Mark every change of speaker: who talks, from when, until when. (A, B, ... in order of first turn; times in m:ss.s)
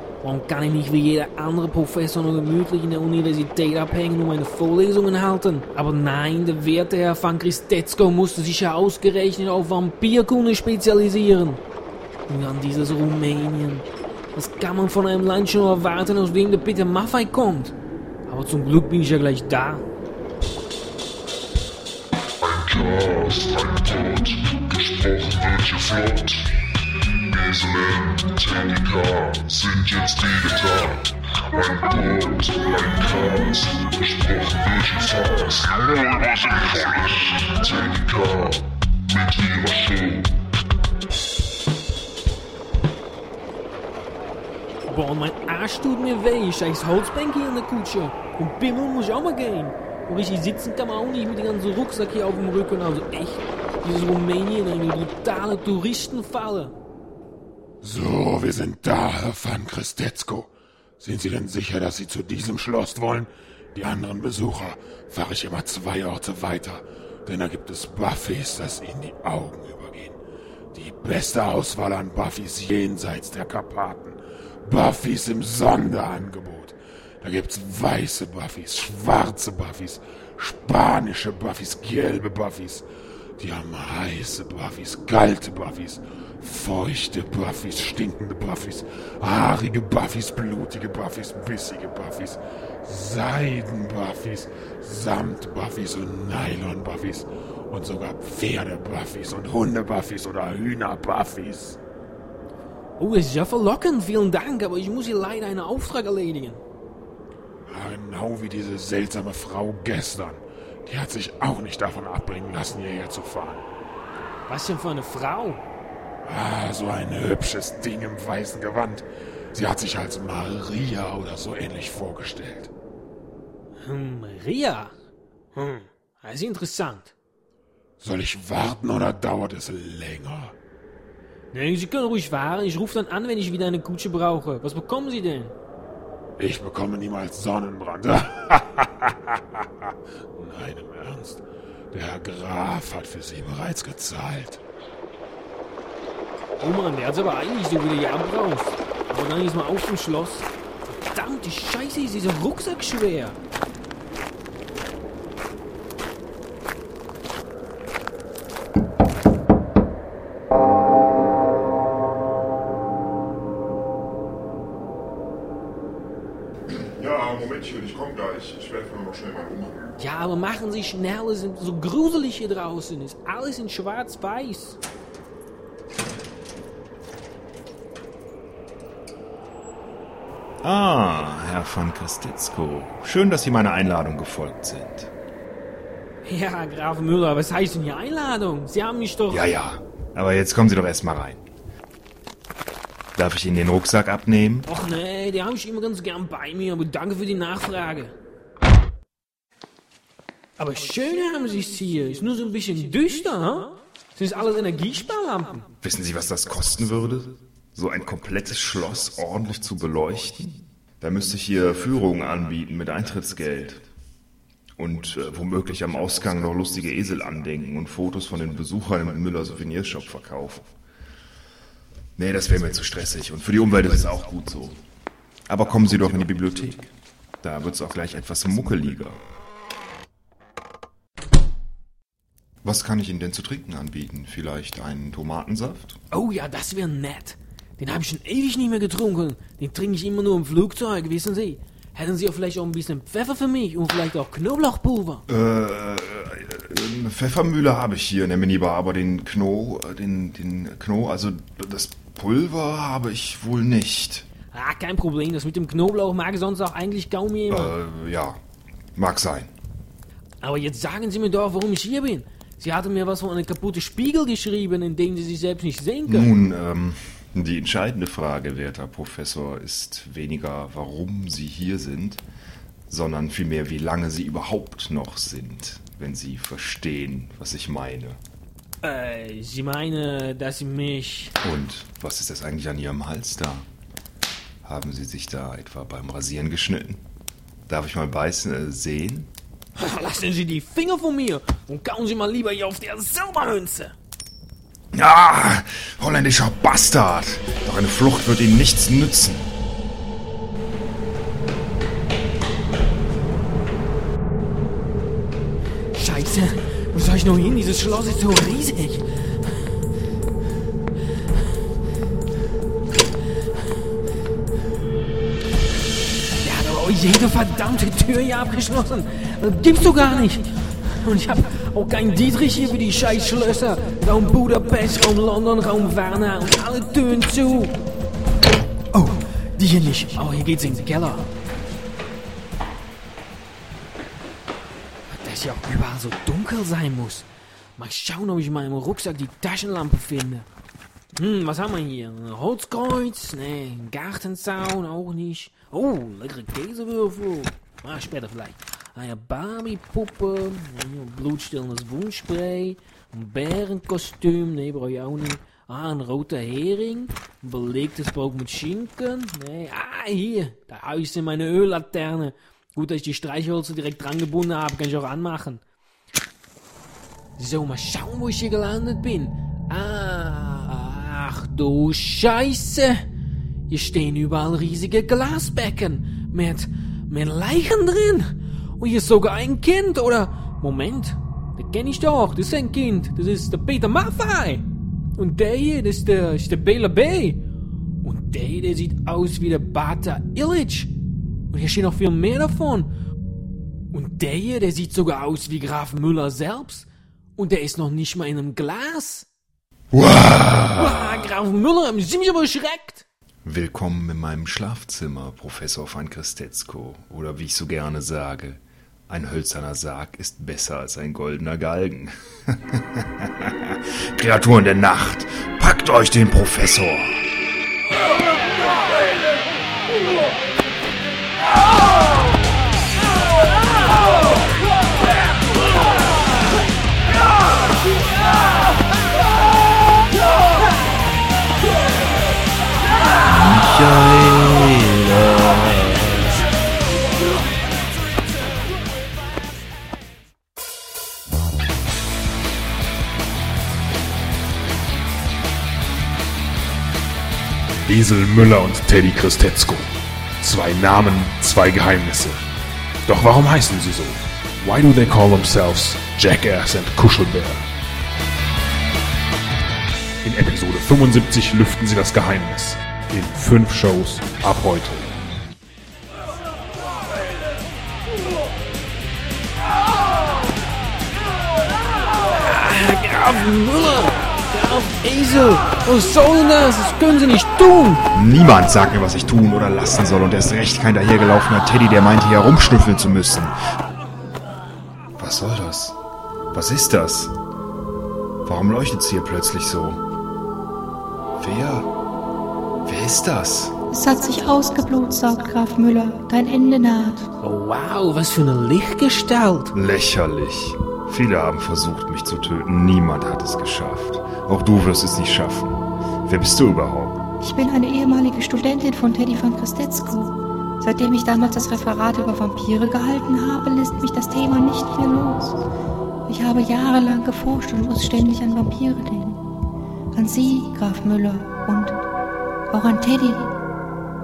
0:00.2-0:11.6 A
0:12.3-0:17.7 A
0:18.3-0:19.8 A
0:22.4-0:26.5 B
0:27.3-0:35.8 B
0:36.6-0:40.3 B
0:44.8-0:56.7 A
0:57.8-1:10.2 C
1:10.7-1:22.8 C
1:23.4-1:41.8 C
1:43.0-1:46.6 A
1:47.7-1:53.6 C
1:54.5-1:55.6 A
1:56.2-2:02.7 C
2:03.8-2:04.9 A
2:05.5-2:07.1 A
2:08.0-2:10.5 C
2:11.5-2:15.5 A
2:16.4-2:24.6 C
2:26.6-2:33.4 A
2:46.7-2:49.9 D
2:50.0-2:54.8 A
3:00.6-3:05.1 D
3:06.2-3:09.5 A
3:09.3-3:11.4 D
3:13.2-3:14.7 D
3:14.7-3:18.1 A
3:20.6-3:25.6 A
3:25.8-3:33.8 D
3:34.8-3:40.7 D
3:42.2-3:44.8 D
3:45.5-3:46.9 D
3:47.4-3:49.2 D
3:52.6-3:56.0 D
3:56.1-4:05.2 A
4:05.3-4:14.2 D
4:14.5-4:17.8 A
4:17.5-4:18.4 D
4:19.0-4:19.5 D
4:20.4-4:26.3 A
4:26.1-4:32.2 D
4:32.9-4:38.2 D
4:38.8-4:41.3 A
4:41.4-4:43.7 D
4:44.6-4:47.0 D
4:47.7-4:49.3 D
4:49.8-4:53.9 A
4:54.9-4:59.5 D
5:05.9-5:09.5 A
5:16.4-5:27.7 A
5:28.9-5:31.3 A
5:35.1-5:40.5 A
5:41.2-6:05.6 A
6:07.4-6:13.0 A
6:13.7-6:24.6 A
6:25.2-6:27.4 A
6:28.0-6:30.9 A
6:31.5-6:32.9 A
6:33.9-6:39.3 A
6:39.9-6:41.2 D
6:40.8-6:43.0 A
6:43.4-6:57.2 D
7:13.2-7:16.3 D
7:27.8-7:29.9 C
7:30.4-7:32.4 C
7:33.0-7:37.6 C
7:40.2-7:45.2 C
7:52.3-7:58.0 A
7:58.1-8:03.5 D
8:05.2-8:06.0 D
8:06.5-8:07.4 D
8:08.4-8:10.0 D
8:11.4-8:11.9 D
8:12.8-8:13.8 D
8:13.9-8:17.2 E
8:17.4-8:19.7 A
8:19.7-8:27.2 D
8:27.4-8:35.6 E
8:36.3-8:39.4 E
8:40.1-8:42.0 E
8:42.7-8:43.4 E